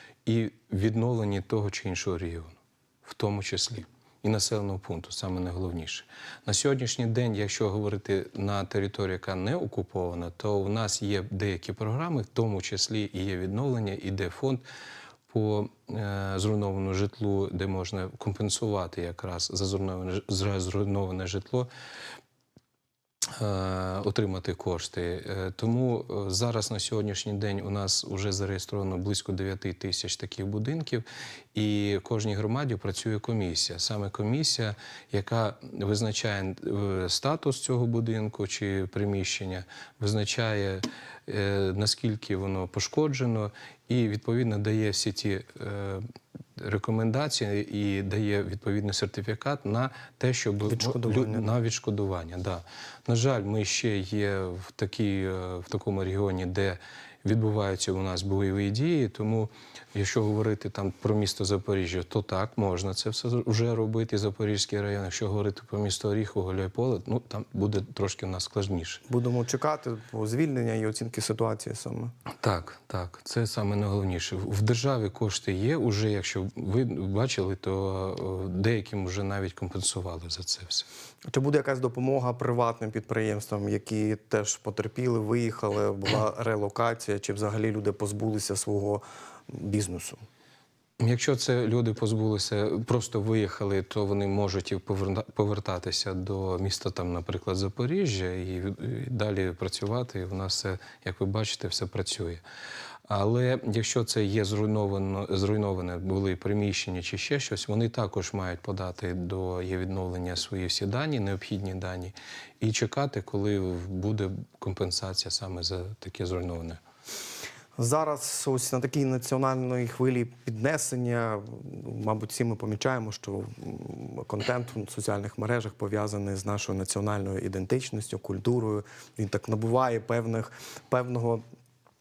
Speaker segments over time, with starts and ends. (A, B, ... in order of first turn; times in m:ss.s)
0:00.2-0:14.6 A
0:15.3-0:21.7 A
0:23.2-0:46.0 A
0:46.6-1:09.0 A
0:50.7-0:51.4 B
1:09.1-1:12.1 B
1:12.4-1:20.9 A
1:21.3-1:30.2 B
1:31.0-1:42.4 A
1:43.1-1:56.8 A
1:57.8-2:11.4 B